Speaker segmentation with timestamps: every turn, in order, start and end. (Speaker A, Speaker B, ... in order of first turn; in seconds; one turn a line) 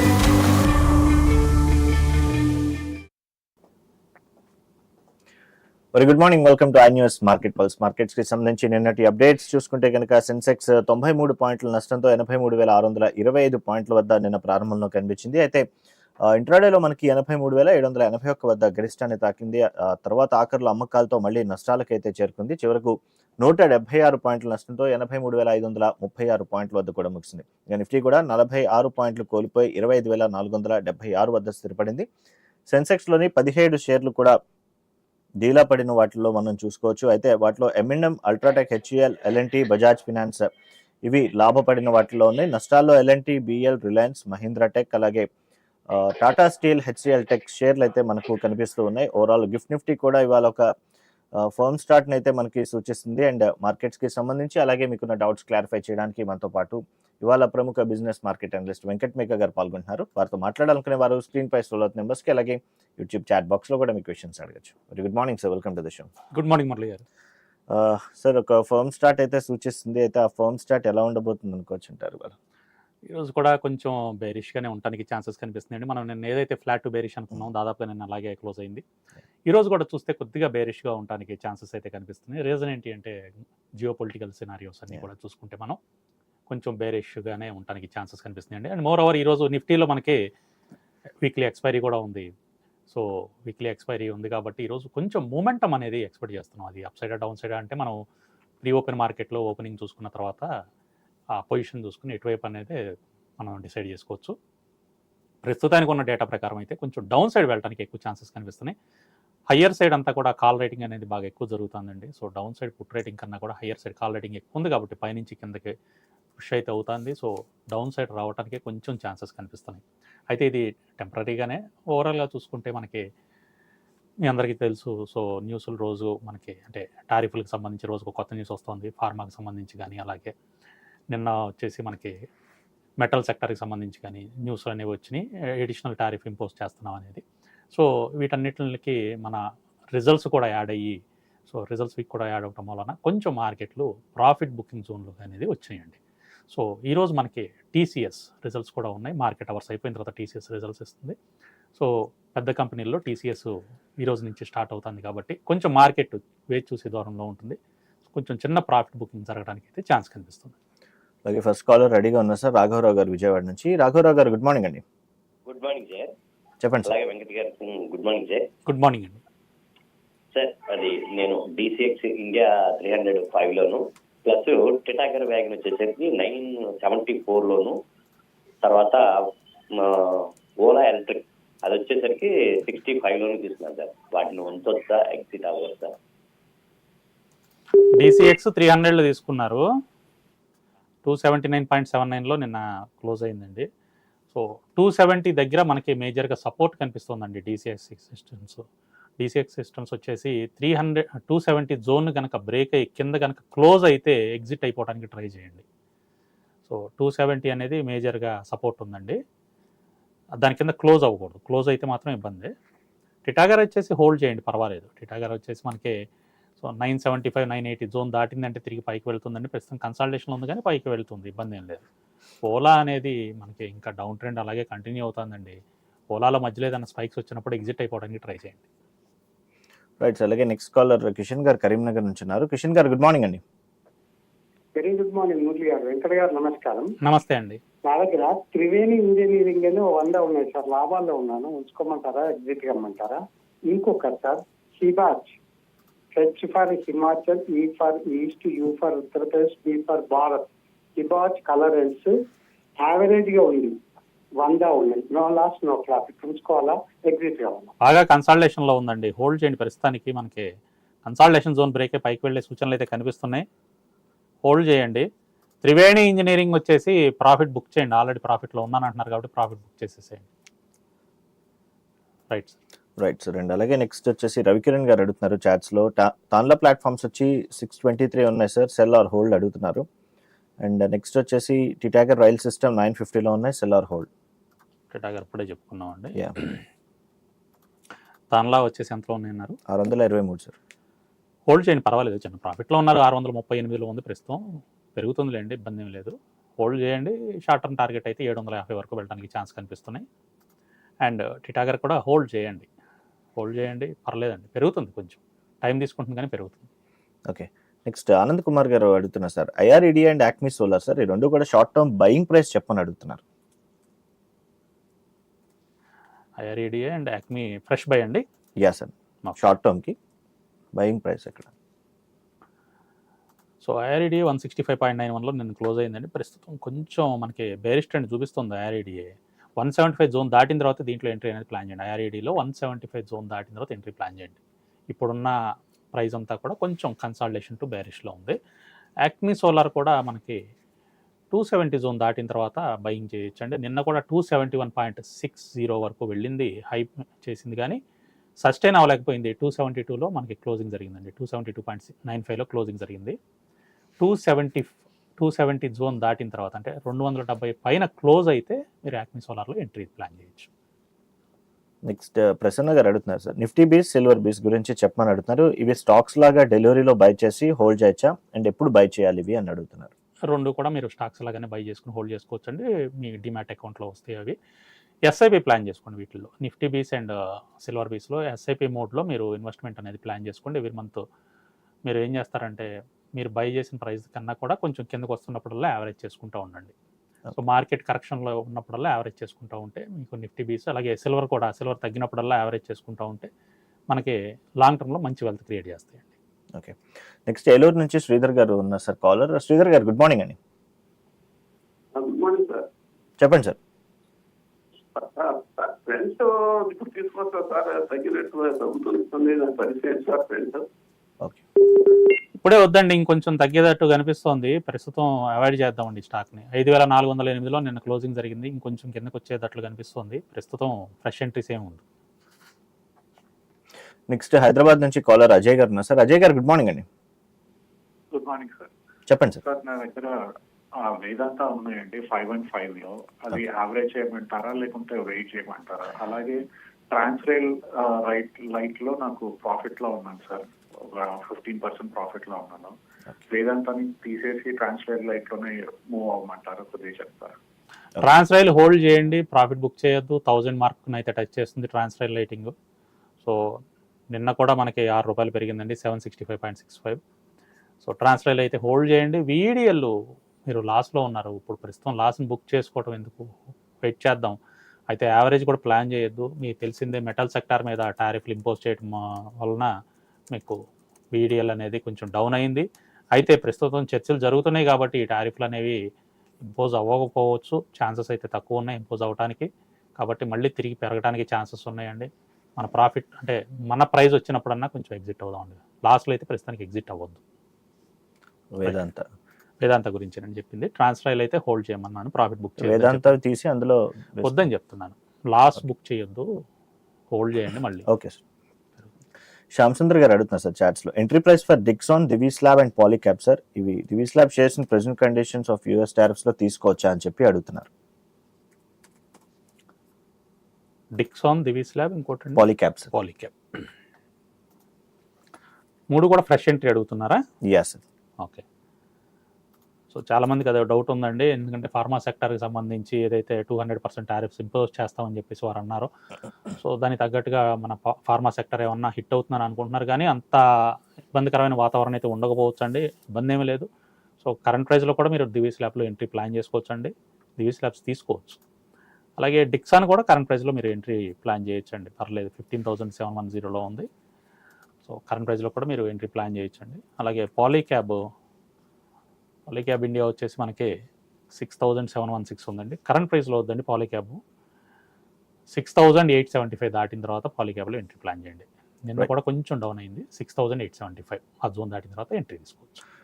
Speaker A: 5.9-15.7
Speaker A: 16.3-32.1
Speaker A: 32.7-34.4
Speaker A: 35.4-40.5
Speaker A: 41.0-45.3
Speaker A: 45.9-50.7
Speaker A: 51.4-66.1
Speaker B: 66.3-67.0
Speaker A: 67.7-72.4
Speaker B: 73.1-78.8
Speaker B: 79.5-83.2
Speaker B: 83.8-85.8
Speaker B: 86.5-90.2
Speaker B: 91.2-92.3
Speaker B: 92.9-98.0
Speaker B: 98.6-100.5
Speaker B: 101.4-102.8
Speaker B: 103.4-104.3
Speaker B: 105.5-108.8
Speaker B: 109.5-115.7
Speaker B: 116.4-123.0
Speaker B: 124.2-130.3
Speaker B: 131.1-132.2
Speaker B: 133.0-139.4
Speaker B: 139.9-146.0
Speaker B: 146.5-151.2
Speaker B: 151.8-157.6
Speaker B: 158.1-160.6
Speaker A: 161.2-164.8
Speaker C: 165.5-166.1
Speaker A: 166.6-166.9
Speaker C: 166.9-168.5
Speaker B: 168.7-169.2
Speaker C: 170.3-177.8
Speaker C: 178.6-179.0
Speaker C: 179.7-185.9
Speaker B: 187.9-189.6
Speaker B: 191.1-193.7
Speaker B: 194.3-198.6
Speaker B: 199.2-205.6
Speaker B: 206.7-209.2
Speaker B: 210.4-212.5
Speaker B: 213.3-216.0
Speaker B: 216.6-221.8
Speaker B: 222.4-225.6
Speaker B: 226.1-228.6
Speaker A: 230.0-233.4
Speaker D: 234.8-236.9
Speaker B: 237.0-237.6
Speaker D: 237.8-245.4
Speaker D: 246.1-252.2
Speaker D: 252.8-253.8
Speaker D: 254.4-257.7
Speaker B: 257.8-260.5
Speaker B: 261.1-263.5
Speaker B: 264.4-265.1
Speaker B: 265.6-270.3
Speaker B: 272.3-272.6
Speaker A: 273.0-279.9
Speaker A: 280.6-284.1
Speaker B: 284.9-286.2
Speaker B: 288.3-289.6
Speaker A: 289.7-290.6
Speaker B: 291.5-294.4
Speaker B: 294.9-300.1
Speaker B: 301.0-302.7
Speaker B: 303.4-306.7
Speaker A: 307.3-313.2
Speaker B: 316.4-318.2
Speaker A: 318.6-320.0
Speaker A: 320.7-321.5
Speaker B: 323.6-334.4
Speaker B: 334.9-335.4
Speaker B: 335.9-338.4
Speaker B: 339.0-340.4
Speaker B: 341.3-347.8
Speaker B: 348.4-353.2
Speaker B: 354.0-360.5
Speaker A: 361.9-369.9
Speaker B: 370.3-374.4
Speaker B: 375.1-381.0
Speaker B: 381.9-386.7
Speaker B: 387.4-393.3
Speaker B: 393.9-396.1
Speaker A: 396.6-400.4
Speaker E: 401.9-402.7
Speaker A: 403.2-403.6
Speaker E: 405.0-410.7
Speaker B: 412.4-421.8
Speaker A: 424.1-426.9
Speaker F: 428.1-428.7
Speaker A: 429.1-429.4
Speaker F: 429.4-430.1
Speaker F: 430.8-442.7
Speaker F: 443.3-447.4
Speaker B: 448.0-452.5
Speaker B: 454.1-457.0
Speaker B: 457.8-459.9
Speaker B: 460.5-463.3
Speaker B: 463.8-464.4
Speaker B: 464.9-469.7
Speaker B: 471.1-475.8
Speaker B: 476.4-487.2
Speaker A: 488.5-489.1
Speaker B: 489.6-493.1
Speaker A: 492.6-494.4
Speaker B: 494.2-496.3
Speaker B: 497.1-497.9
Speaker A: 497.9-498.2
Speaker A: 499.5-507.7
Speaker B: 511.0-513.7
Speaker A: 512.4-512.9
Speaker B: 515.9-517.2
Speaker A: 517.5-517.8
Speaker B: 519.9-525.9
Speaker B: 526.6-530.4
Speaker B: 531.1-533.7
Speaker B: 534.2-538.4
Speaker B: 539.2-543.9
Speaker B: 544.9-548.0
Speaker B: 549.5-550.7
Speaker B: 551.4-554.2
Speaker B: 555.5-562.8